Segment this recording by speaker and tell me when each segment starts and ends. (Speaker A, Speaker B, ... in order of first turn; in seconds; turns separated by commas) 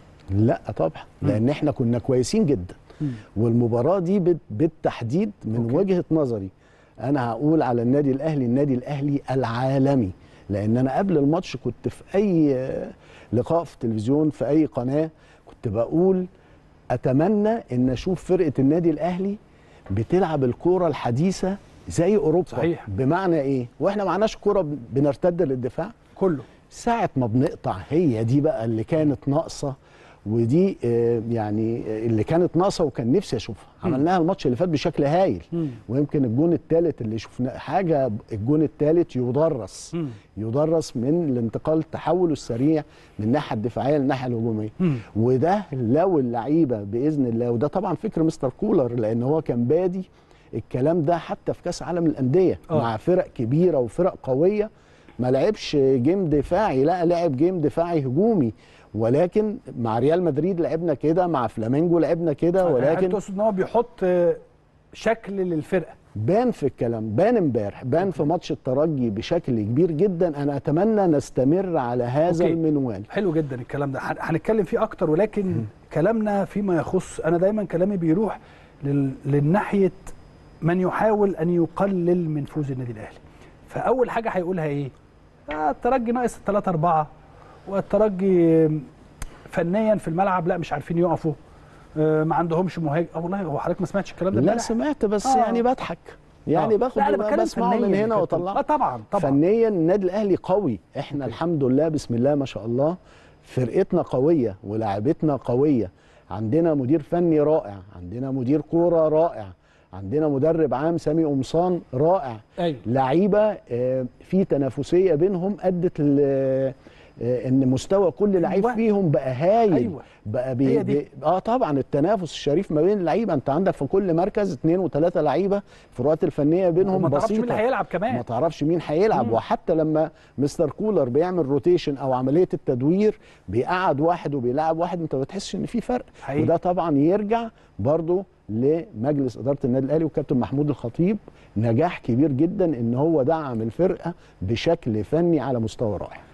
Speaker A: 0.3-2.8, Speaker A: 3.4-6.5, Speaker B: 5.6-5.8, Speaker A: 7.0-16.2, Speaker A: 16.9-19.4, Speaker A: 19.9-25.9, Speaker B: 22.5-22.9, Speaker B: 26.1-26.5, Speaker A: 26.7-54.7, Speaker A: 55.2-63.2, Speaker B: 62.6-64.4, Speaker B: 64.9-66.0, Speaker A: 66.2-73.1, Speaker B: 72.3-72.6, Speaker B: 73.1-84.9, Speaker B: 85.5-87.1, Speaker B: 87.7-88.9, Speaker B: 89.5-91.4, Speaker B: 92.0-95.6, Speaker A: 94.3-98.6, Speaker B: 96.5-99.4, Speaker A: 99.1-146.2, Speaker B: 112.6-112.8, Speaker B: 118.4-118.8, Speaker B: 119.7-120.0, Speaker B: 120.6-121.0, Speaker B: 126.8-128.2, Speaker B: 136.2-136.5